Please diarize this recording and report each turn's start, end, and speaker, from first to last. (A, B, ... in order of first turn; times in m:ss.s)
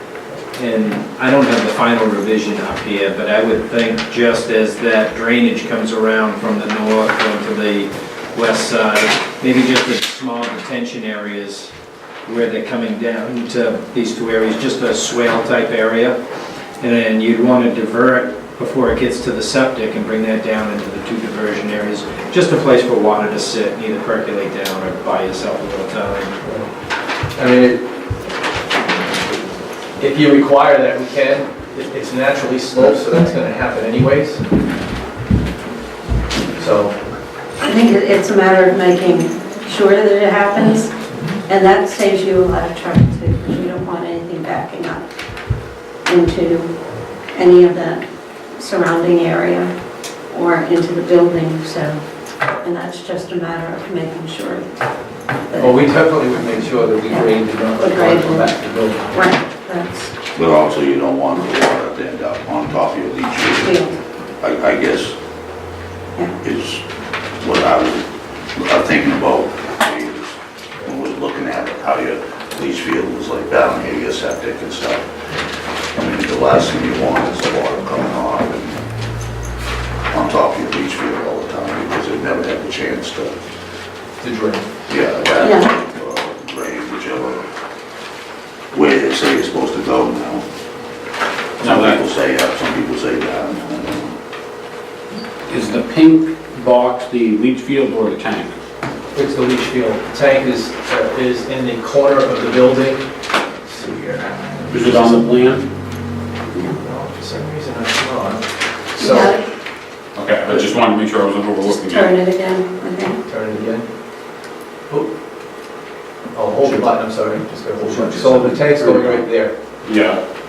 0:00.5-0:11.7 A
0:12.3-0:16.2 A
0:16.8-0:26.4 A
0:26.4-0:26.7 B
0:27.4-0:27.9 B
0:30.0-0:34.4 B
0:36.6-0:37.0 B
0:37.6-0:40.9 C
0:41.5-0:45.0 C
0:46.0-0:46.7 C
0:47.3-0:48.0 C
0:48.6-0:49.7 C
0:50.3-0:52.0 C
0:52.6-0:54.7 C
0:55.5-0:55.8 C
0:55.6-0:59.3 B
0:57.1-0:58.5 C
0:59.1-1:00.1 C
1:00.3-1:03.8 D
1:03.6-1:04.0 C
1:04.4-1:05.2 D
1:06.4-1:06.8 D
1:07.4-1:15.1 D
1:16.0-1:18.8 D
1:20.1-1:23.3 D
1:24.2-1:24.7 B
1:24.9-1:27.5 D
1:25.4-1:25.7 C
1:28.7-1:30.4 D
1:31.6-1:34.2 D
1:31.6-1:32.0 E
1:35.5-1:38.5 E
1:39.1-1:43.0 B
1:43.6-1:45.2 B
1:44.7-1:45.6 E
1:46.8-1:49.4 B
1:49.0-1:49.4 C
1:50.2-1:52.1 E
1:51.6-1:53.2 C
1:53.3-1:53.9 B
1:56.3-1:59.6 B
1:57.9-1:59.2 E
1:59.8-2:00.2 E